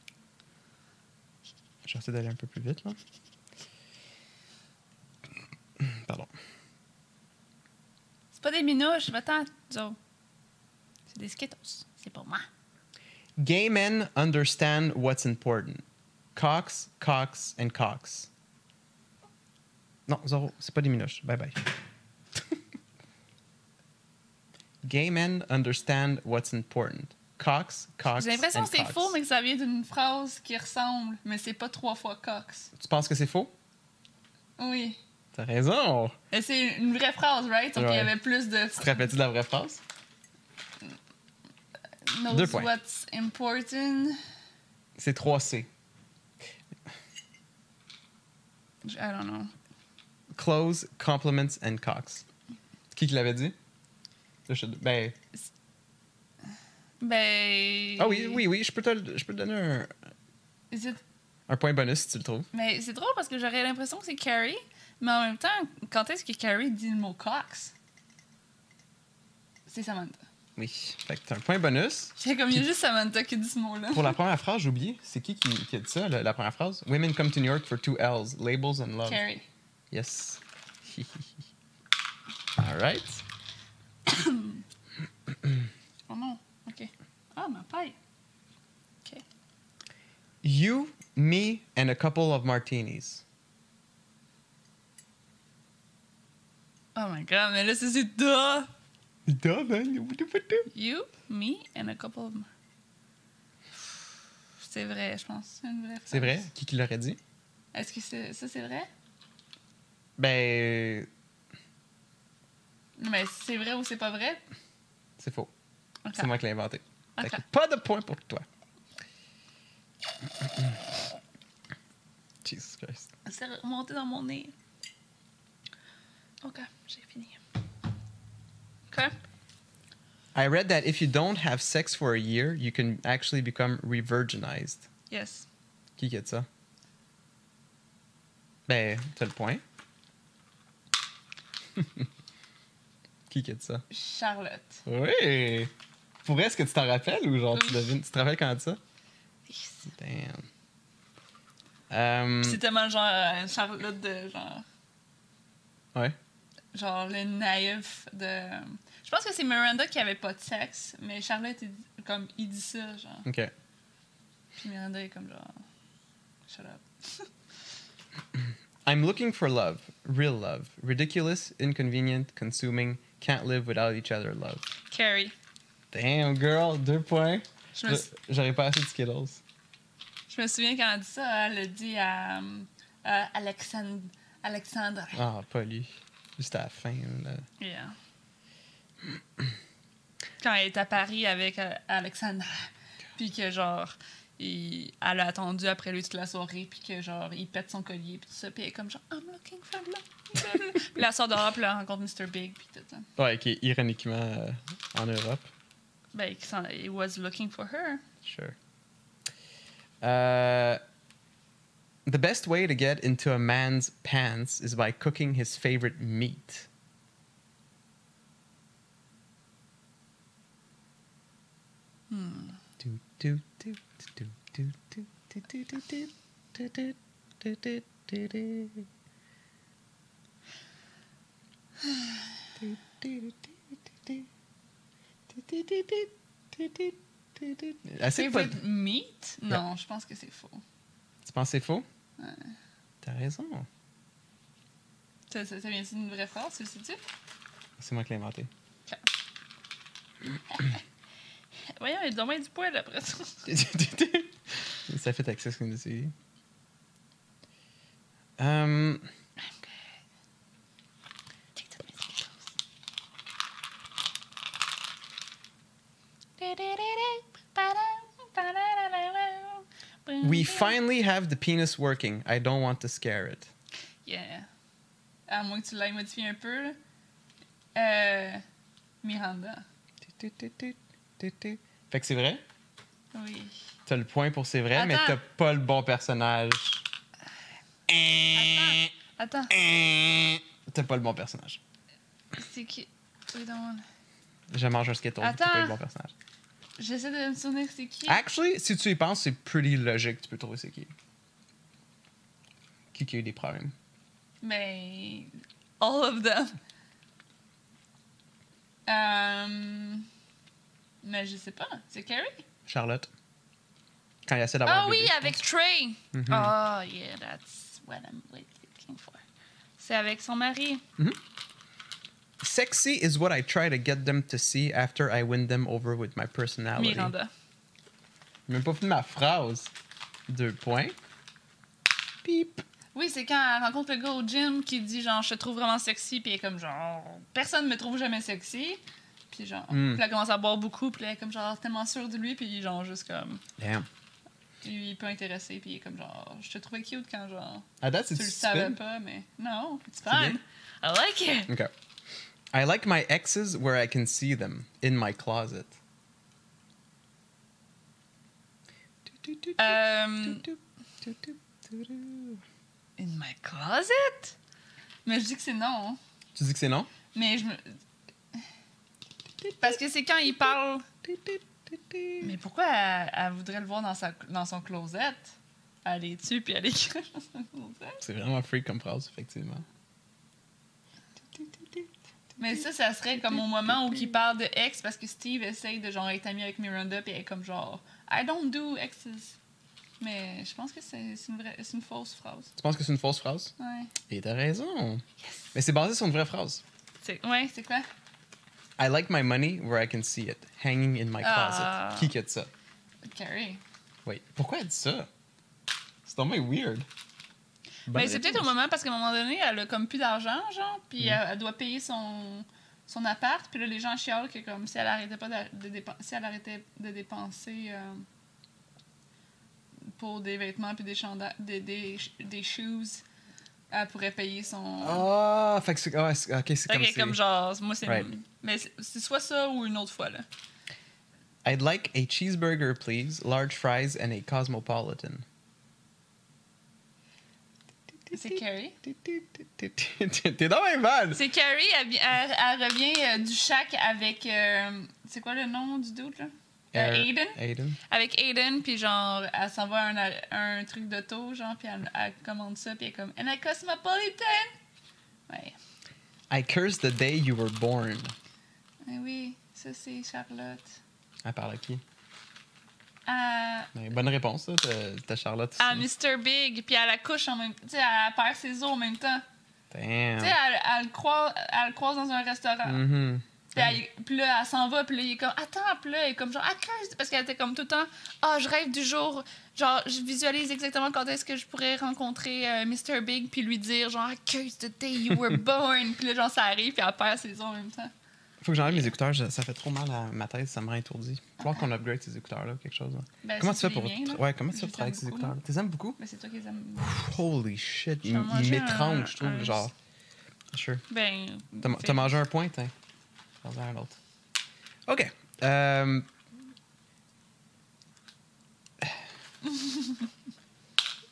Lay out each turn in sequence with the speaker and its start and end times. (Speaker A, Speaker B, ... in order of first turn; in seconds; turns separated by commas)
Speaker A: 1.8-3.0, Speaker A: 5.8-6.3, Speaker B: 8.3-10.0, Speaker B: 11.1-12.5, Speaker A: 13.4-15.8, Speaker A: 16.4-18.3, Speaker A: 20.1-21.7, Speaker A: 24.8-29.1, Speaker B: 28.2-32.7, Speaker A: 32.8-33.5, Speaker B: 34.6-35.0, Speaker A: 35.3-36.1, Speaker B: 36.3-39.1, Speaker A: 37.8-38.1, Speaker A: 38.8-39.8, Speaker B: 42.1-44.2, Speaker A: 42.3-42.7, Speaker A: 45.0-45.7, Speaker B: 48.8-49.5, Speaker A: 50.3-52.2, Speaker A: 52.9-53.5, Speaker A: 54.5-55.2, Speaker B: 57.0-58.4, Speaker A: 58.0-59.9, Speaker B: 60.7-61.0, Speaker A: 61.5-62.5, Speaker B: 62.5-67.7, Speaker B: 69.7-70.2, Speaker A: 70.6-72.6, Speaker B: 72.2-74.2, Speaker A: 73.9-79.2, Speaker B: 79.1-79.5, Speaker A: 79.9-81.3, Speaker A: 82.6-83.2, Speaker B: 84.1-84.6, Speaker B: 86.1-88.0, Speaker A: 90.4-93.2, Speaker B: 97.0-98.7, Speaker A: 99.3-100.7, Speaker B: 100.7-102.5, Speaker B: 104.6-106.5, Speaker A: 106.1-107.2, Speaker B: 107.7-108.9, Speaker A: 110.2-111.1, Speaker B: 113.0-114.4, Speaker A: 115.2-115.5, Speaker B: 116.0-116.3, Speaker A: 116.2-118.5, Speaker B: 117.2-117.4, Speaker A: 120.4-120.7, Speaker A: 122.4-123.1, Speaker B: 123.2-124.5, Speaker B: 126.4-127.4, Speaker A: 130.3-134.9, Speaker B: 135.1-135.5, Speaker A: 136.0-136.5, Speaker A: 138.7-139.6, Speaker A: 141.8-142.1, Speaker A: 143.3-143.8, Speaker B: 143.9-144.8, Speaker A: 144.9-145.7, Speaker A: 146.2-148.8, Speaker B: 147.5-147.9, Speaker B: 149.5-149.9, Speaker A: 149.9-150.5, Speaker A: 151.9-152.6, Speaker B: 152.4-154.7, Speaker B: 156.7-163.3, Speaker A: 163.2-163.5, Speaker B: 164.6-165.6, Speaker B: 166.5-167.3, Speaker A: 168.8-174.7, Speaker B: 174.9-175.3, Speaker A: 175.9-179.4, Speaker B: 177.8-178.1, Speaker B: 180.3-185.2, Speaker A: 185.1-187.4, Speaker B: 187.6-188.0, Speaker B: 190.4-203.1, Speaker A: 203.2-205.5, Speaker B: 206.1-208.0, Speaker A: 208.2-208.6, Speaker A: 210.0-210.8, Speaker A: 212.1-216.7, Speaker B: 222.1-222.6, Speaker A: 222.8-228.9, Speaker A: 232.6-233.5, Speaker A: 235.3-238.6, Speaker B: 238.1-240.6, Speaker A: 241.2-241.9, Speaker B: 242.2-242.5, Speaker A: 243.0-243.7, Speaker B: 245.3-247.0, Speaker A: 247.8-248.5, Speaker B: 250.5-250.8, Speaker B: 251.8-253.5, Speaker A: 253.5-256.1, Speaker A: 258.4-259.1, Speaker B: 259.4-259.9, Speaker B: 261.6-262.5, Speaker B: 266.4-270.8, Speaker A: 270.2-273.5, Speaker B: 274.1-274.5, Speaker B: 275.3-276.8, Speaker B: 277.8-278.4, Speaker B: 279.0-279.6, Speaker A: 280.1-282.4, Speaker B: 283.1-283.5, Speaker A: 283.9-286.9, Speaker B: 284.7-285.2, Speaker A: 287.9-288.9, Speaker B: 288.3-289.6, Speaker A: 289.5-291.6, Speaker B: 292.4-293.9, Speaker A: 294.5-296.1, Speaker B: 295.2-295.8, Speaker B: 296.8-298.2, Speaker A: 298.1-300.9, Speaker A: 302.9-303.7, Speaker B: 304.4-306.6, Speaker B: 308.9-310.1, Speaker B: 311.0-312.4, Speaker A: 312.7-313.1, Speaker A: 314.3-315.4, Speaker B: 314.6-319.2, Speaker A: 316.1-316.5, Speaker B: 319.8-320.8, Speaker A: 322.4-327.1, Speaker B: 326.8-327.3, Speaker A: 328.5-329.7, Speaker A: 330.3-331.0, Speaker A: 332.2-332.6, Speaker B: 332.9-343.4, Speaker A: 339.7-340.0, Speaker A: 343.6-343.9, Speaker B: 344.6-351.5, Speaker A: 347.8-348.8, Speaker A: 350.0-350.4, Speaker A: 352.5-355.8, Speaker A: 359.1-362.4, Speaker B: 359.6-360.5, Speaker B: 363.0-364.4, Speaker B: 365.1-366.0, Speaker A: 366.4-366.9, Speaker B: 367.1-367.8, Speaker B: 369.6-370.9, Speaker A: 371.1-372.3, Speaker B: 372.2-378.0, Speaker A: 378.0-379.6, Speaker A: 381.4-381.8, Speaker B: 382.4-389.4, Speaker A: 383.2-384.1, Speaker B: 390.0-392.5, Speaker A: 392.6-393.5, Speaker B: 393.6-393.9, Speaker A: 394.1-395.0, Speaker A: 395.5-396.6, Speaker B: 397.0-397.9, Speaker A: 398.8-402.5, Speaker B: 401.2-402.1, Speaker B: 403.0-403.6, Speaker A: 404.1-405.1, Speaker A: 406.1-406.9, Speaker A: 407.9-408.5, Speaker B: 407.9-418.1, Speaker B: 420.0-423.0, Speaker B: 423.7-425.1, Speaker A: 424.8-427.2, Speaker B: 426.7-430.3, Speaker A: 427.9-428.1, Speaker A: 431.4-435.2, Speaker A: 438.1-441.2, Speaker B: 438.1-438.8, Speaker B: 441.1-454.5, Speaker A: 446.7-447.8, Speaker B: 455.3-455.6, Speaker A: 456.3-458.1, Speaker B: 458.8-460.8, Speaker A: 461.2-461.8, Speaker B: 463.1-463.7, Speaker A: 463.7-465.9, Speaker B: 465.6-469.2, Speaker A: 469.7-470.4, Speaker B: 470.2-472.8, Speaker A: 472.6-473.8, Speaker B: 473.5-487.9, Speaker A: 488.4-496.0, Speaker B: 488.7-488.9, Speaker B: 493.2-495.4, Speaker B: 496.0-497.0, Speaker A: 496.8-499.7, Speaker B: 498.0-499.7, Speaker A: 500.5-500.8, Speaker B: 500.9-502.2, Speaker A: 501.6-502.7, Speaker A: 503.4-504.0, Speaker A: 504.9-506.1, Speaker B: 509.5-510.0